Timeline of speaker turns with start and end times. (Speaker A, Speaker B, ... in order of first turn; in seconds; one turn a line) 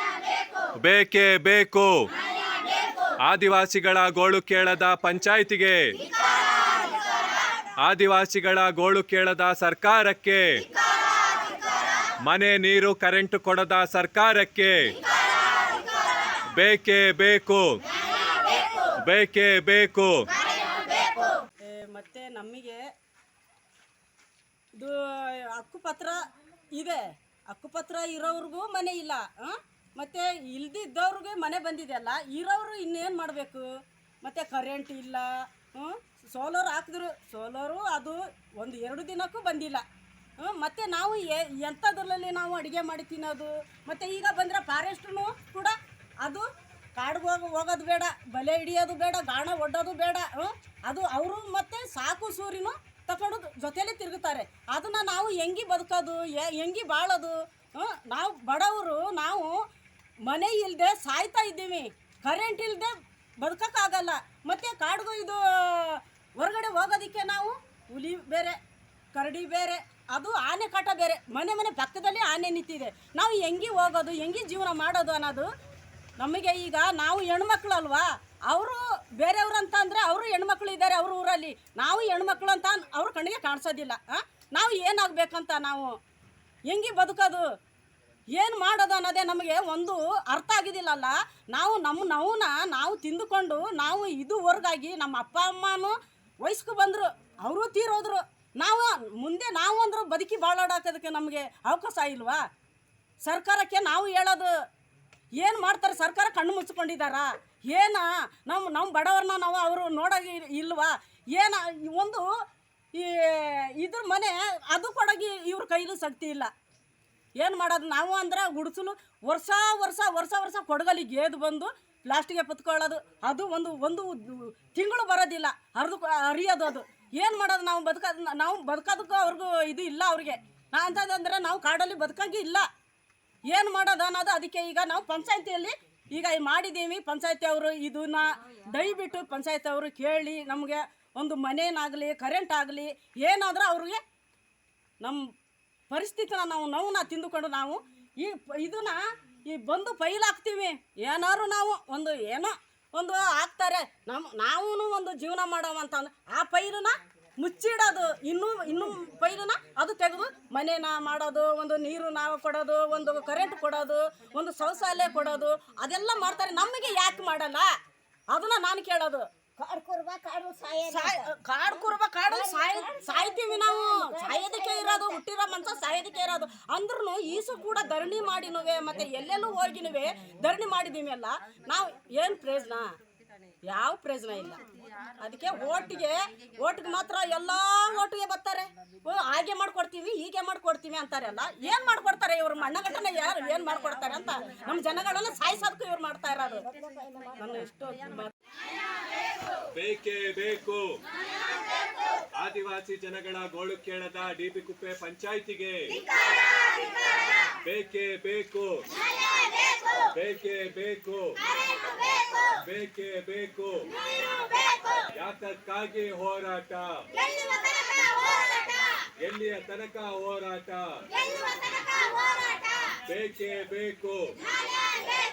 Speaker A: 0.8-2.0
Speaker A: 3.2-5.8
Speaker A: 7.8-10.5
Speaker A: 12.2-14.9
Speaker A: 16.6-17.8
Speaker A: 19.0-20.2
Speaker B: 21.6-22.8
Speaker B: 24.8-26.2
Speaker B: 26.8-33.7
Speaker B: 34.2-39.8
Speaker B: 40.4-59.5
Speaker B: 60.3-68.6
Speaker B: 69.2-75.5
Speaker B: 76.2-86.0
Speaker B: 86.7-87.5
Speaker B: 88.3-102.4
Speaker B: 103.2-104.5
Speaker B: 105.4-112.3
Speaker B: 112.9-116.5
Speaker B: 117.4-132.7
Speaker B: 133.5-144.0
Speaker B: 145.9-167.7
Speaker B: 168.3-169.2
Speaker C: 169.6-171.2
Speaker B: 170.9-182.9
Speaker C: 172.3-175.1
Speaker B: 183.7-184.6
Speaker B: 185.2-196.7
Speaker C: 196.7-197.6
Speaker B: 197.4-198.3
Speaker A: 199.8-200.8
Speaker A: 202.4-205.9
Speaker A: 207.6-208.8
Speaker A: 210.0-211.3
Speaker A: 212.4-213.8
Speaker A: 214.9-217.0
Speaker A: 219.2-220.8
Speaker A: 223.0-224.3